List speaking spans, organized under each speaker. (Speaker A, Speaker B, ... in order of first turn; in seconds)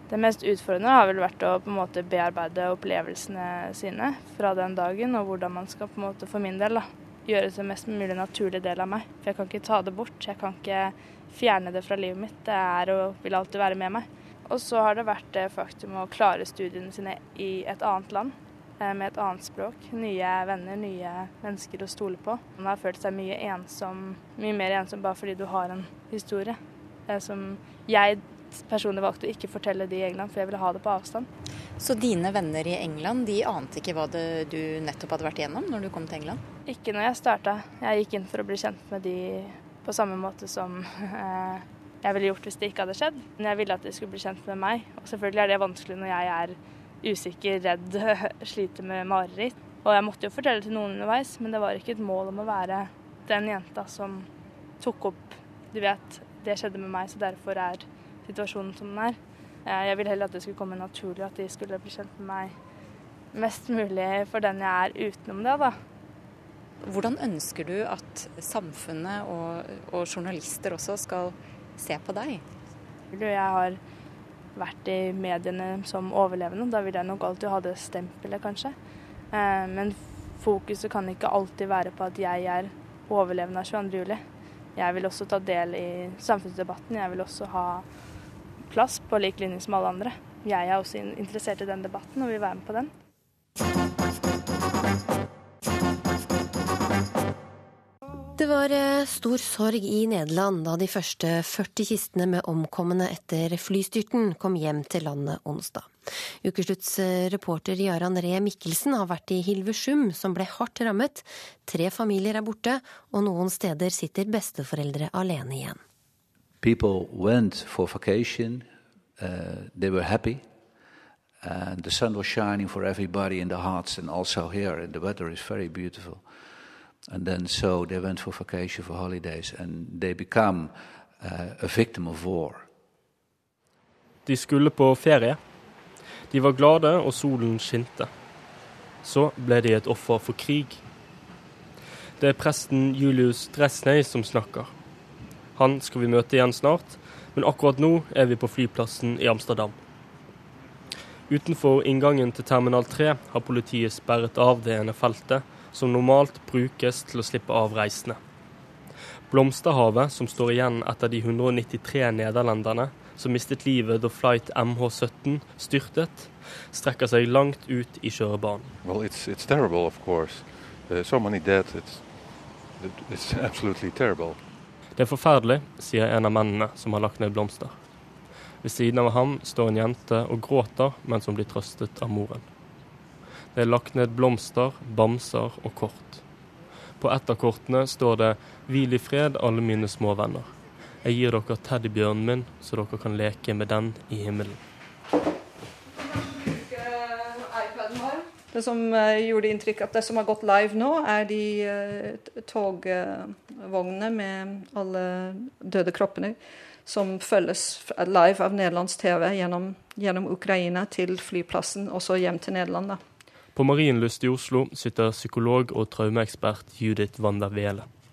Speaker A: 0.1-31.3, 36.6-54.3, 54.8-62.5, 63.3-65.8, 73.1-73.8, 74.5-78.8, 79.3-84.2, 84.8-87.8, 88.7-92.9
Speaker B: 31.8-36.4, 66.8-72.4
Speaker C: 98.4-105.9, 106.4-115.8
Speaker D: 116.6-120.6, 121.4-126.5, 127.1-132.7
Speaker E: 134.2-135.4, 136.3-138.1, 139.0-140.8, 142.2-144.7, 145.5-149.8, 151.3-158.2, 159.3-168.7, 174.9-177.8, 178.6-182.4, 183.5-186.2, 187.0-194.6, 213.5-217.9
Speaker F: 168.8-172.1, 172.8-174.4
Speaker G: 198.5-213.0